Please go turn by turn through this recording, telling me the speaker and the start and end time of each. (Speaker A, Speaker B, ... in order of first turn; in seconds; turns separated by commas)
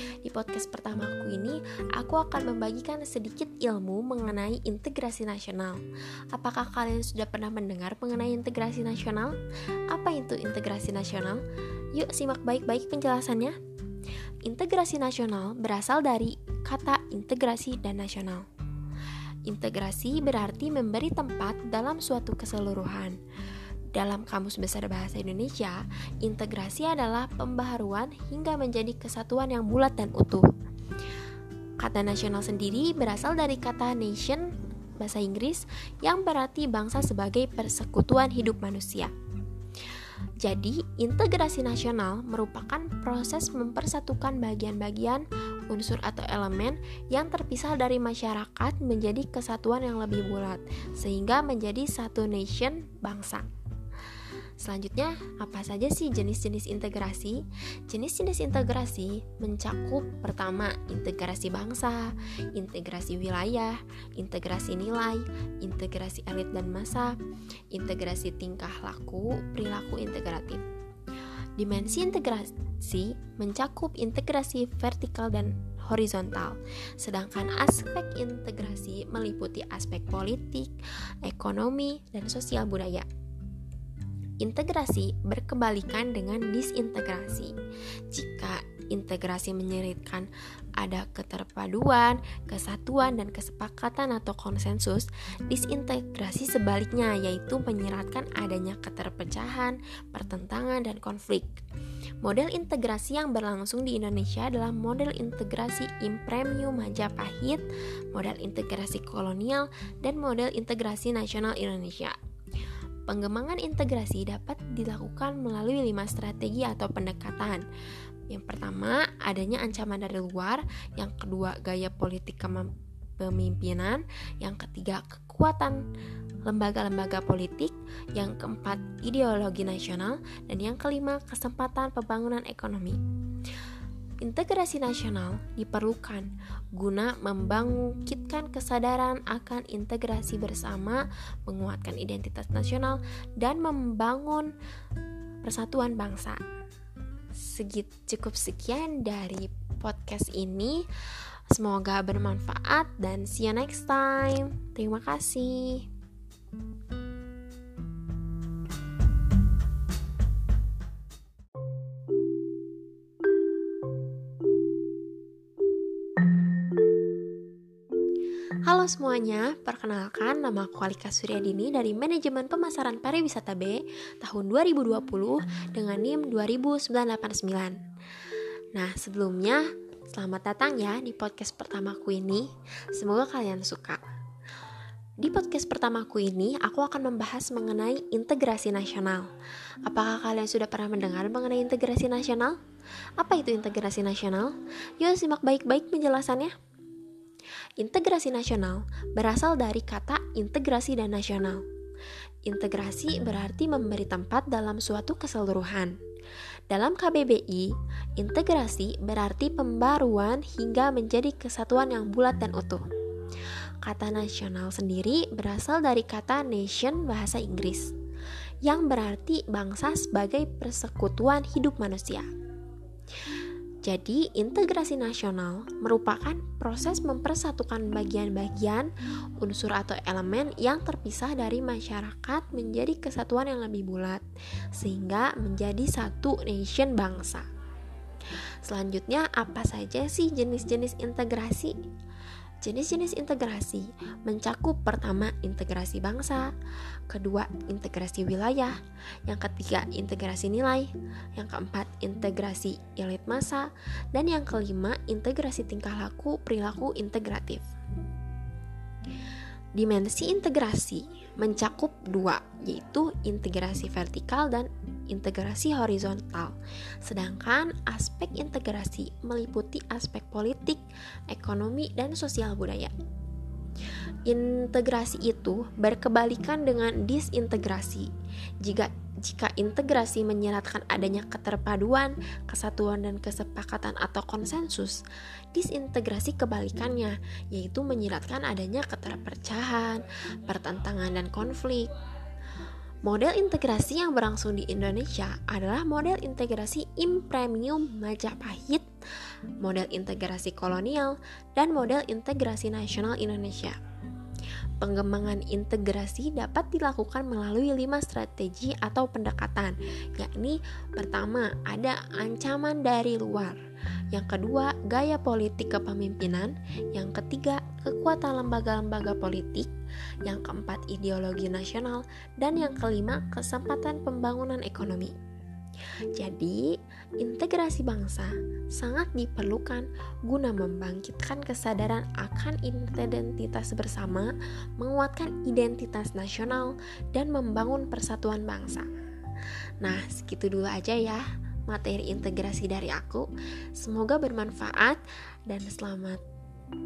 Speaker A: 0.2-9.4, Speaker A: 9.9-11.4, Speaker A: 11.9-13.6, Speaker A: 14.4-18.5, Speaker A: 19.5-23.2, Speaker A: 23.9-30.5, Speaker A: 31.8-39.1, Speaker A: 40.4-53.5, Speaker A: 54.6-67.2, Speaker A: 67.7-70.7, Speaker A: 71.6-83.1, Speaker A: 84.4-87.5, Speaker A: 88.1-101.6, Speaker A: 102.2-112.2, Speaker A: 113.1-117.6, Speaker A: 118.3-125.8, Speaker A: 126.4-133.0, Speaker A: 134.2-144.5, Speaker A: 145.4-146.4, Speaker A: 147.4-150.9, Speaker A: 151.5-155.9, Speaker A: 168.7-177.8, Speaker A: 178.7-184.0, Speaker A: 185.2-189.3, Speaker A: 189.9-192.6, Speaker A: 193.2-196.6, Speaker A: 197.8-201.6, Speaker A: 202.5-206.0, Speaker A: 206.7-212.8, Speaker A: 213.8-217.9, Speaker A: 218.6-222.3, Speaker A: 223.8-237.4, Speaker A: 238.6-241.7, Speaker A: 242.6-246.5, Speaker A: 247.1-248.8, Speaker A: 249.3-257.6, Speaker A: 259.8-272.9, Speaker A: 274.2-278.1, Speaker A: 278.6-285.0, Speaker A: 285.5-291.9, Speaker A: 293.0-298.9, Speaker A: 299.6-303.8, Speaker A: 304.8-313.6, Speaker A: 314.1-319.7, Speaker A: 320.2-325.1, Speaker A: 326.1-338.9, Speaker A: 339.8-346.2